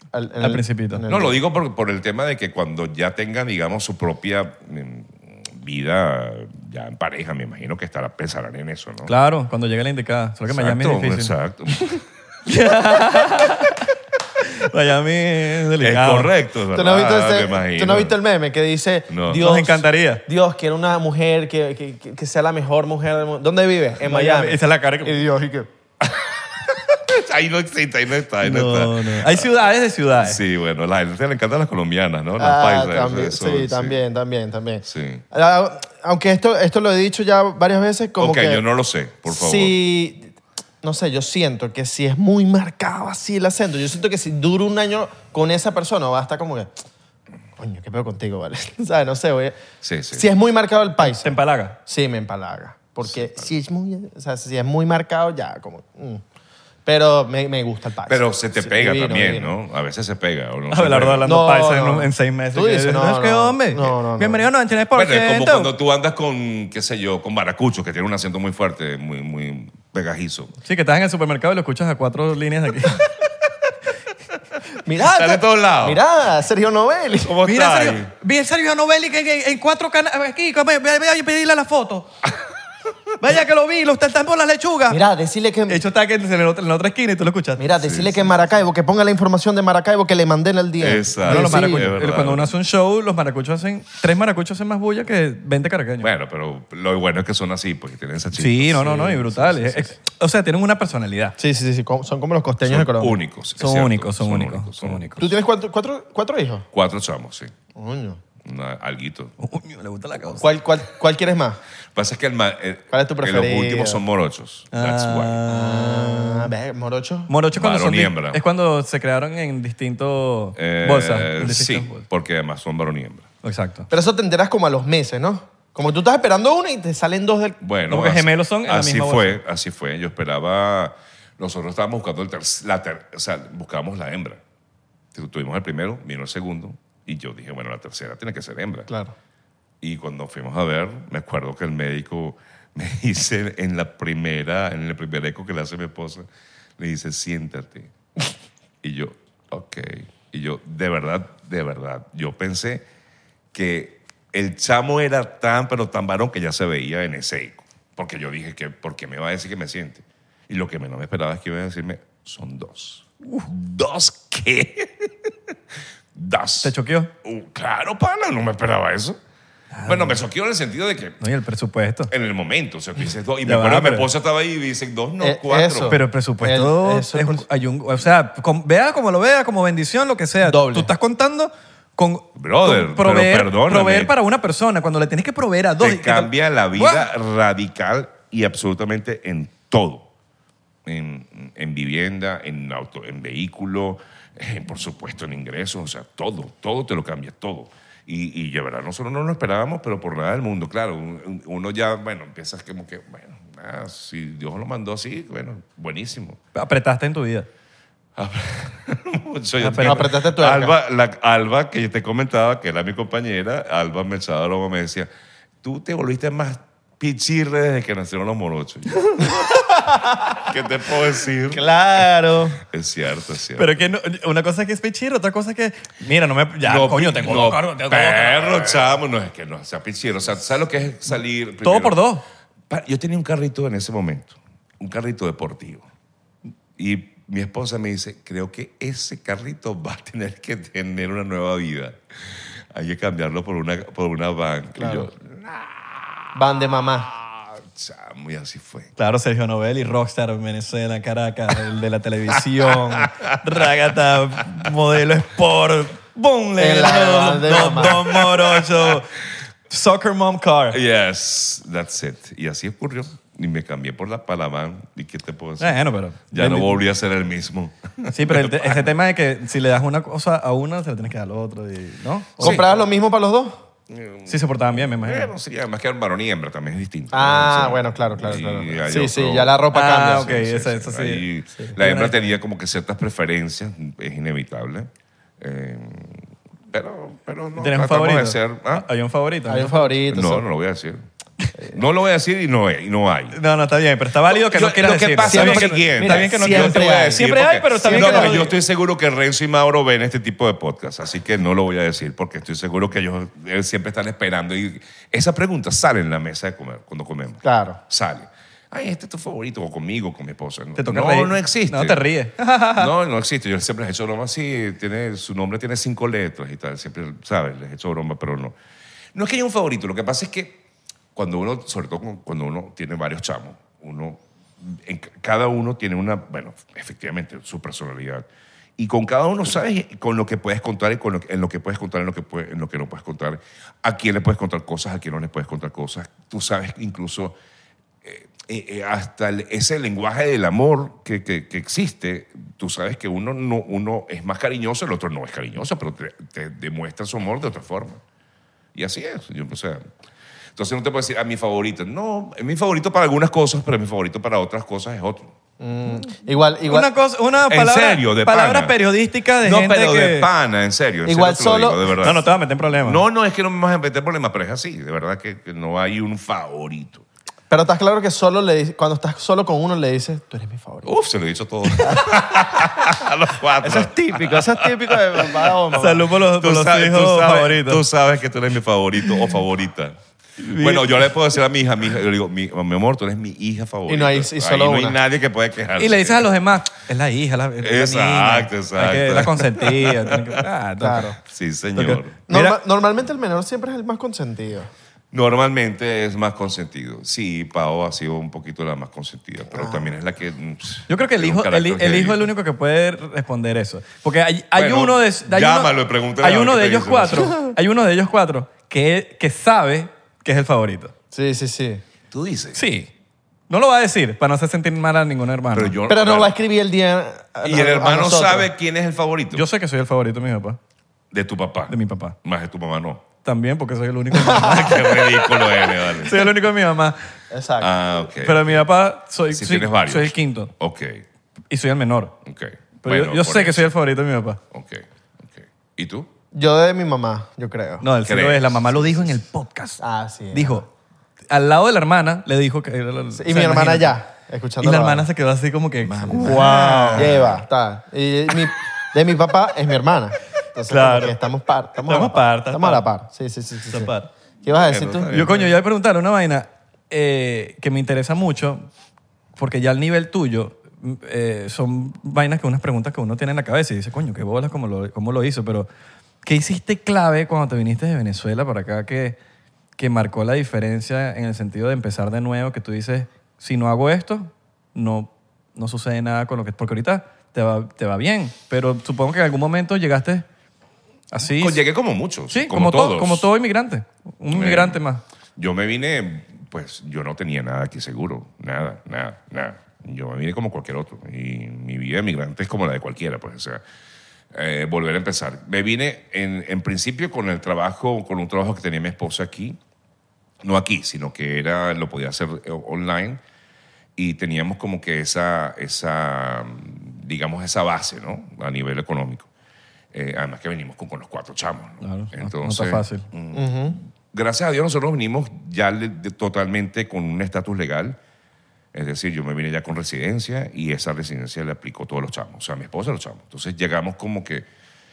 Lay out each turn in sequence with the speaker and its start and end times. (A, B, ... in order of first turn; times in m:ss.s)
0:00.1-0:01.4 A
0:00.4-0:01.0 B
0:01.1-0:09.1 C
0:09.1-0:13.9 B
0:10.5-0:12.0 C
0:14.4-0:16.3 B
0:15.8-0:18.2 C
0:16.7-0:25.7 A
0:19.1-0:19.4 C
0:19.3-0:20.2 B
0:24.0-0:25.2 B
0:26.0-0:29.5 C
0:28.4-0:30.4 B
0:30.2-0:34.0 C
0:32.4-0:38.6 A
0:34.8-0:35.2 C
0:38.2-0:39.7 C
0:39.3-0:40.3 A
0:40.8-0:46.7 A
0:47.6-0:49.6 A
0:49.8-0:50.2 C
0:50.1-0:56.2 A
0:51.0-0:51.8 B
0:53.0-0:53.5 C
0:56.8-0:59.5 A
0:58.1-1:01.3 C
1:00.7-1:05.7 B
1:01.2-1:04.4 A
1:04.9-1:10.5 C
1:10.6-1:13.0 B
1:14.8-1:17.3 A
1:15.0-1:16.0 C
1:17.2-1:18.1 C
1:17.4-1:22.1 B
1:23.2-1:25.0 B
1:24.9-1:25.8 A
1:25.7-1:27.6 B
1:27.6-1:31.9 A
1:27.8-1:28.3 C
1:30.8-1:32.5 C
1:31.2-1:36.1 B
1:36.0-1:39.9 C
1:38.4-1:41.4 B
1:41.4-1:43.2 A
1:42.6-1:45.1 C
1:43.6-1:45.3 B
1:45.2-1:46.7 A
1:46.7-1:47.5 C
1:47.7-1:48.2 A
1:48.4-1:49.3 C
1:49.4-1:50.5 B
1:50.4-1:51.6 A
1:51.9-1:55.4 C
1:52.9-1:54.0 A
1:54.7-1:56.5 B
1:55.5-1:57.3 A
1:57.3-2:02.0 B
1:57.5-1:58.4 C
2:00.6-2:03.3 C
2:03.4-2:03.9 B
2:03.9-2:07.6 A
2:07.6-2:14.4 C
2:07.9-2:09.4 B
2:15.1-2:18.9 C
2:18.9-2:19.1 A
2:19.8-2:26.2 C
2:26.8-2:27.9 C
2:28.8-2:32.8 C
2:33.5-2:45.3 C
2:46.1-2:49.2 C
2:46.6-2:47.1 B
2:49.7-2:50.2 B
2:49.8-2:51.2 C
2:51.2-2:52.1 B
2:52.1-2:56.0 C
2:53.4-2:54.1 B
2:55.2-2:57.4 A
2:55.9-3:07.1 B
3:00.4-3:00.9 A
3:02.4-3:04.1 C
3:05.8-3:10.1 C
3:10.8-3:26.4 C
3:26.5-3:27.5 B
3:28.2-3:35.1 C
3:29.6-3:30.1 B
3:29.8-3:30.7 A
3:35.6-3:39.3 C
3:39.2-3:40.1 A
3:40.4-3:41.6 C
3:41.5-3:42.6 A
3:42.7-3:43.8 C
3:43.6-3:48.7 B
3:46.6-3:52.0 C
3:51.6-3:52.2 B
3:52.7-3:55.8 C
3:56.8-4:02.0 C
4:02.7-4:08.9 C
4:04.8-4:05.1 A
4:06.3-4:07.1 A
4:09.0-4:19.1 B
4:12.9-4:13.4 C
4:16.6-4:18.2 A
4:19.7-4:20.8 B
4:20.7-4:25.8 C
4:25.6-4:26.8 B
4:26.3-4:28.9 C
4:28.1-4:32.6 B
4:32.4-4:32.8 C
4:32.4-4:33.6 A
4:33.9-4:39.6 C
4:34.3-4:35.3 B
4:37.1-4:40.4 A
4:39.7-4:42.2 B
4:40.2-4:48.8 C
4:47.6-4:49.9 B
4:49.5-4:50.4 A
4:50.1-4:51.0 C
4:51.6-4:53.4 C
4:53.3-4:58.6 B
4:54.3-5:12.0 C
4:55.2-4:58.5 A
5:07.4-5:07.8 A
5:10.8-5:12.9 B
5:12.8-5:18.5 C
5:19.1-5:20.6 C
5:21.1-5:28.2 C
5:28.8-5:37.4 C
5:38.0-5:48.0 C
5:48.7-5:49.8 C
5:50.6-5:55.3 C
5:55.6-5:56.9 A
5:56.7-6:00.3 B
5:57.5-5:58.7 C
5:59.4-6:02.3 C
6:01.0-6:01.8 A
6:02.0-6:03.0 B
6:02.8-6:07.0 C
6:07.5-6:10.9 A
6:10.8-6:15.5 C
6:11.8-6:12.1 A
6:13.6-6:16.1 A
6:15.7-6:17.8 B
6:16.3-6:26.3 C
6:20.4-6:21.1 B
6:23.9-6:25.0 A
6:25.8-6:31.1 B
6:27.6-6:30.4 C
6:30.8-6:31.2 A
6:31.2-6:32.2 C
6:31.8-6:32.6 B
6:32.3-6:34.7 A
6:35.1-6:42.3 C
6:39.5-6:39.9 A
6:40.9-6:50.9 B
6:44.5-6:47.3 C
6:51.1-6:51.8 A
6:52.1-6:52.6 C
6:52.5-6:52.9 B
6:53.5-6:55.7 B
6:55.5-6:56.3 C
6:55.9-6:58.5 A
6:57.4-6:59.4 C
6:59.3-7:00.6 B
7:01.1-7:03.0 C
7:01.7-7:02.2 B
7:03.2-7:07.0 B
7:04.3-7:06.2 C
7:07.3-7:07.7 A
7:07.6-7:08.6 C
7:08.2-7:10.5 B
7:09.3-7:11.0 C
7:11.5-7:12.2 B
7:12.2-7:13.7 C
7:12.8-7:14.4 B
7:14.5-7:16.1 C
7:16.3-7:17.8 A
7:17.8-7:20.6 B
7:18.0-7:19.2 C
7:19.8-7:20.6 A
7:21.3-7:24.0 B
7:23.1-7:25.1 A
7:24.6-7:27.1 B
7:25.8-7:27.4 C
7:26.2-7:33.9 A
7:30.7-7:31.2 B
7:31.8-7:32.8 B
7:33.7-7:34.1 B
7:34.4-7:35.2 A
7:34.5-7:35.5 C
7:35.1-7:38.7 B
7:39.4-7:45.7 B
7:46.2-7:49.2 B
7:49.8-8:00.2 B
8:01.1-8:01.6 B
8:01.3-8:03.3 C
8:02.3-8:05.0 B
8:04.3-8:04.8 C
8:05.4-8:13.6 C
8:14.3-8:19.6 C
8:20.4-8:23.2 C
8:24.0-8:29.3 C
8:29.9-8:38.0 C
8:31.8-8:33.1 B
8:33.3-8:33.8 A
8:38.7-8:44.4 C